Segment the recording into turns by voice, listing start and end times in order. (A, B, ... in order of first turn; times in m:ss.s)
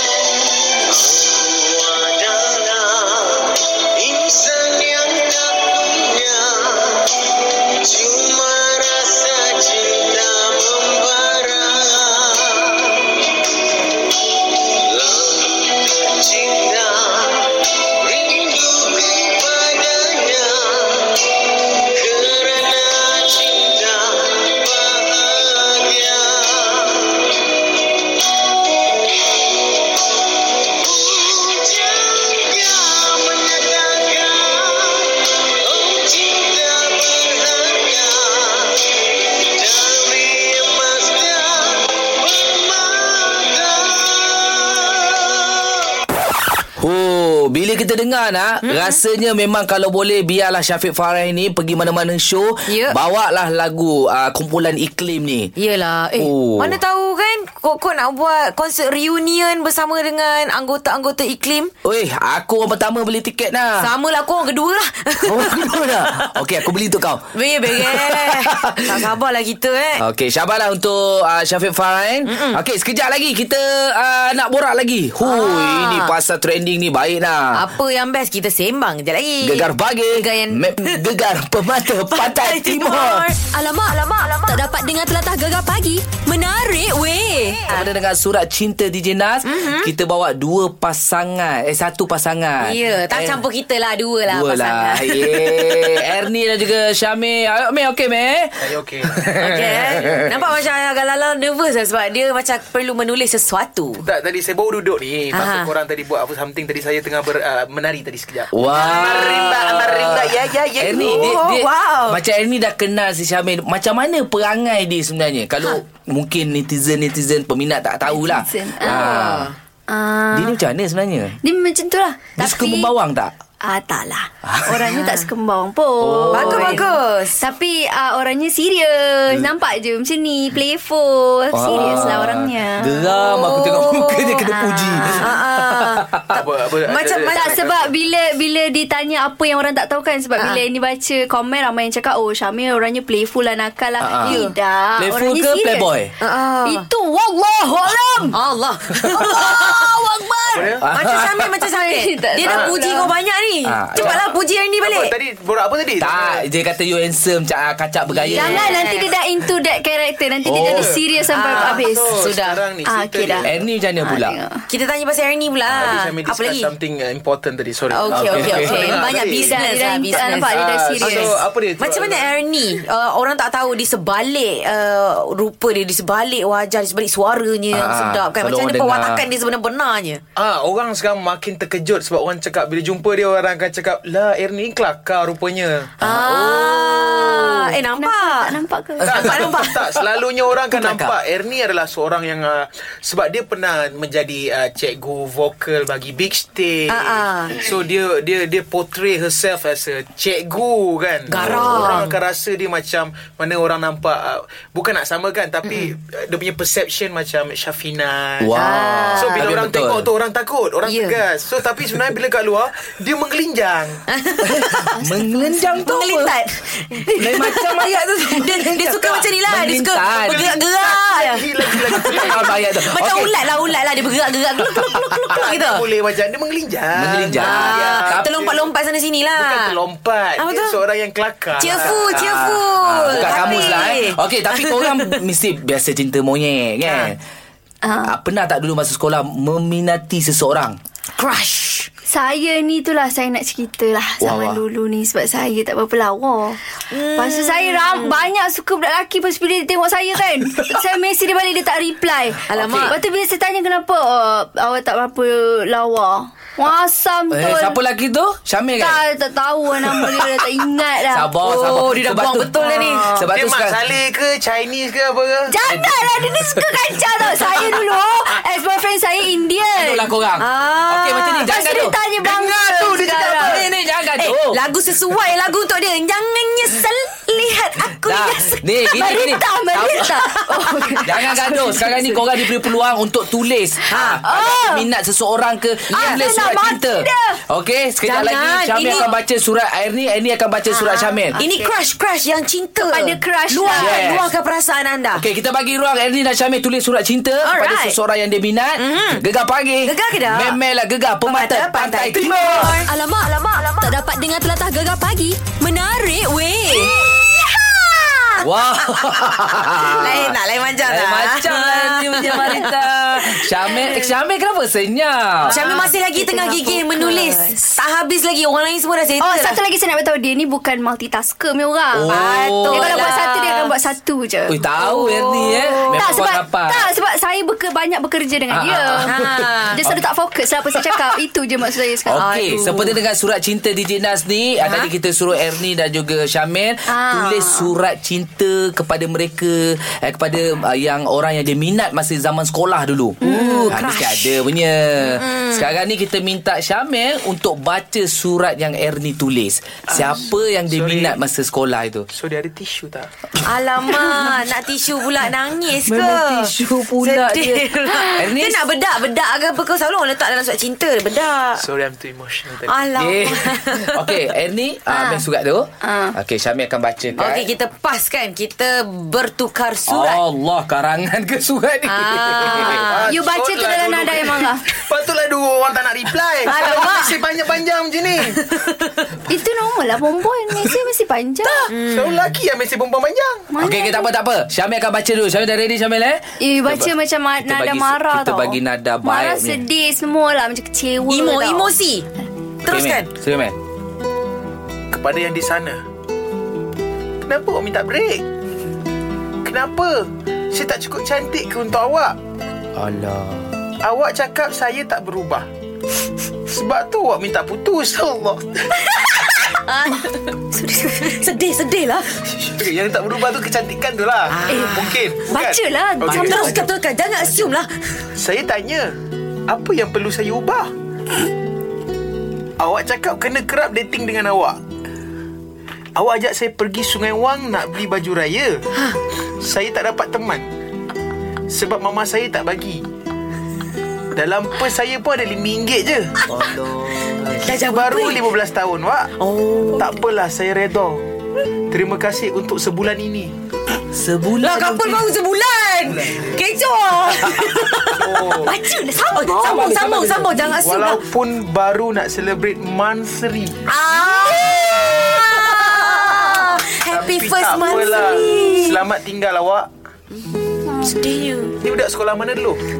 0:01.1-0:03.4 A
0:04.0-0:06.9 A
0:07.8-0:12.5 A
0:16.0-0:17.4 A
0:18.0-0:20.6 A
0:22.1-0:23.8 A
0:22.2-0:23.2 B
0:25.4-0:26.3 A
0:25.5-0:25.8 B
0:26.5-0:26.8 B
0:31.0-0:33.3 B
0:32.7-0:34.9 A
0:34.0-0:34.6 B
0:35.8-0:38.3 A
0:39.5-0:41.8 A
0:42.4-0:43.8 A
0:46.8-0:55.5 C
0:48.6-0:49.0 B
0:52.7-0:53.0 B
0:55.6-1:01.7 B
0:56.2-0:56.8 C
1:01.8-1:03.9 C
1:03.8-1:06.2 B
1:05.2-1:09.1 C
1:07.4-1:10.0 B
1:10.0-1:17.6 C
1:12.3-1:12.6 B
1:15.2-1:16.2 B
1:17.6-1:21.3 B
1:19.4-1:23.3 C
1:22.1-1:24.7 B
1:23.5-1:27.6 D
1:27.7-1:33.4 C
1:29.4-1:29.9 B
1:32.6-1:35.8 B
1:34.3-1:40.5 C
1:38.6-1:39.1 A
1:39.4-1:44.0 B
1:44.0-1:51.4 A
1:45.3-1:45.7 B
1:48.5-1:59.5 C
1:48.7-1:49.7 B
1:51.1-1:52.2 B
1:58.1-1:59.1 E
1:58.8-1:59.5 B
1:59.9-2:00.6 E
2:00.3-2:01.4 C
2:01.4-2:02.9 E
2:02.4-2:03.3 C
2:03.6-2:13.2 E
2:04.4-2:05.0 C
2:04.9-2:05.3 B
2:06.0-2:06.8 C
2:06.3-2:07.4 B
2:11.5-2:16.3 C
2:13.2-2:17.6 B
2:14.4-2:15.4 E
2:16.3-2:17.9 A
2:17.3-2:25.9 E
2:24.0-2:24.5 C
2:24.2-2:24.6 B
2:25.0-2:26.1 C
2:26.2-2:26.9 B
2:26.6-2:28.4 E
2:28.3-2:29.8 B
2:29.1-2:30.8 E
2:30.5-2:30.9 A
2:30.8-2:31.5 C
2:30.9-2:35.1 B
2:31.6-2:33.1 E
2:32.4-2:33.1 A
2:33.6-2:34.2 C
2:34.8-2:36.5 A
2:36.0-2:38.8 C
2:38.1-2:39.1 B
2:38.3-2:42.1 E
2:40.4-2:41.0 C
2:40.6-2:43.5 A
2:41.3-2:42.6 B
2:42.8-2:43.5 E
2:43.4-2:44.4 C
2:44.0-2:44.7 E
2:44.7-2:46.8 B
2:45.7-2:49.7 A
2:47.9-3:00.2 B
2:48.1-2:49.0 C
2:48.6-2:51.4 E
2:50.3-2:52.4 A
2:57.7-2:59.2 C
3:00.4-3:05.9 A
3:06.0-3:07.4 C
3:06.0-3:09.9 B
3:07.4-3:09.3 E
3:09.0-3:28.6 A
3:10.8-3:11.1 C
3:16.9-3:17.6 B
3:21.3-3:22.2 B
3:21.4-3:21.9 C
3:25.7-3:25.9 B
3:28.4-3:30.1 C
3:28.6-3:29.5 B
3:29.1-3:34.0 A
3:30.8-3:31.2 B
3:34.1-3:35.0 B
3:34.4-3:36.3 C
3:35.0-3:35.8 E
3:35.8-3:45.9 B
3:37.2-3:40.5 C
3:40.2-3:42.6 A
3:41.8-3:43.6 C
3:44.7-3:48.7 A
3:44.7-3:45.0 C
3:47.0-3:48.3 C
3:47.4-3:49.8 B
3:49.4-3:52.4 A
3:50.4-3:50.8 B
3:51.6-3:55.0 B
3:52.1-3:57.2 C
3:53.1-3:53.9 A
3:56.8-3:57.1 B
3:57.8-3:58.1 E
3:58.0-4:00.8 C
4:01.2-4:01.9 B
4:02.1-4:17.8 E
4:04.2-4:04.6 C
4:06.9-4:08.2 B
4:12.5-4:13.0 B
4:12.5-4:12.9 C
4:17.3-4:19.0 C
4:18.8-4:21.3 E
4:19.9-4:20.2 C
4:21.1-4:23.8 C
4:21.4-4:23.3 B
4:22.5-4:25.6 A
4:25.5-4:30.1 E
4:25.7-4:27.6 C
4:29.8-4:32.0 C
4:30.4-4:31.5 B
4:31.4-4:33.7 E
4:32.2-4:33.6 A
4:33.2-4:34.6 C
4:34.2-4:38.6 B
4:38.0-4:40.2 C
4:38.9-4:42.2 E
4:40.2-4:41.3 B
4:41.0-4:51.4 C
4:43.9-4:44.2 B
4:44.2-4:44.9 E
4:45.9-4:46.3 B
4:45.9-4:47.4 E
4:48.0-4:49.2 B
4:50.7-4:51.7 E
4:51.4-4:55.2 B
4:52.8-4:54.0 E
4:53.7-4:54.3 C
4:55.1-5:02.8 C
4:57.4-4:58.0 B
4:58.8-4:59.2 B
4:59.8-5:00.6 B
5:01.2-5:03.9 B
5:02.6-5:06.9 D
5:06.6-5:13.8 B
5:08.4-5:15.6 C
5:15.5-5:17.8 E
5:15.5-5:19.6 B
5:19.2-5:24.6 E
5:21.9-5:23.2 C
5:22.1-5:23.8 B
5:24.5-5:26.9 C
5:24.8-5:26.1 B
5:25.9-5:29.2 E
5:28.5-5:30.0 C
5:29.0-5:29.8 B
5:29.7-5:32.8 E
5:30.7-5:31.0 C
5:32.0-5:52.1 C
5:32.1-5:33.0 B
5:34.6-5:34.9 B
5:36.9-5:37.7 E
5:43.2-5:43.8 E
5:43.7-5:44.5 B
5:45.0-5:45.7 B
5:49.9-5:51.2 A
5:52.1-5:53.1 A
5:53.4-6:01.6 B
5:55.8-5:58.7 C
6:01.6-6:03.2 A
6:02.7-6:04.2 B
6:03.0-6:07.5 C
6:04.9-6:05.2 E
6:05.8-6:06.2 E
6:07.2-6:10.2 B
6:09.9-6:12.9 C
6:11.8-6:13.0 B
6:12.4-6:18.6 A
6:13.1-6:14.6 E
6:16.4-6:17.2 B
6:18.5-6:19.0 B
6:19.3-6:21.7 E
6:21.4-6:22.2 B
6:21.8-6:23.5 A
6:23.5-6:24.1 E
6:23.6-6:26.2 C
6:26.4-6:31.8 E
6:27.4-6:29.6 C
6:31.0-6:32.1 B
6:32.6-6:33.1 B
6:32.7-6:33.6 C
6:34.9-6:35.8 A
6:37.3-6:38.2 A
6:39.4-6:42.2 A
6:42.8-6:43.5 C
6:43.8-6:45.5 A
6:46.5-6:48.9 A
6:49.5-6:50.4 B
6:50.5-6:51.2 E
6:51.0-6:52.2 B
6:52.3-6:57.5 A
6:54.3-6:55.2 B
6:54.5-6:56.6 E
6:56.1-6:57.7 B
6:58.1-6:59.0 A
6:59.5-7:00.7 A
7:02.6-7:04.6 A
7:06.0-7:08.6 A
7:09.4-7:10.5 A
7:11.5-7:12.8 A
7:14.1-7:16.1 A
7:16.3-7:17.6 C
7:17.4-7:18.3 B
7:17.6-7:19.2 A
7:19.2-7:20.0 B
7:19.7-7:21.1 A
7:21.7-7:23.3 A
7:23.9-7:25.1 C
7:24.4-7:28.3 B
7:25.8-7:26.5 A
7:28.0-7:28.6 A
7:28.3-7:29.8 E
7:28.9-7:31.0 B
7:29.4-7:30.5 C
7:30.6-7:33.7 A
7:33.7-7:38.8 B
7:35.6-7:36.3 E
7:36.7-7:39.7 A
7:37.7-7:38.6 E
7:40.8-7:41.6 B
7:41.6-7:42.6 A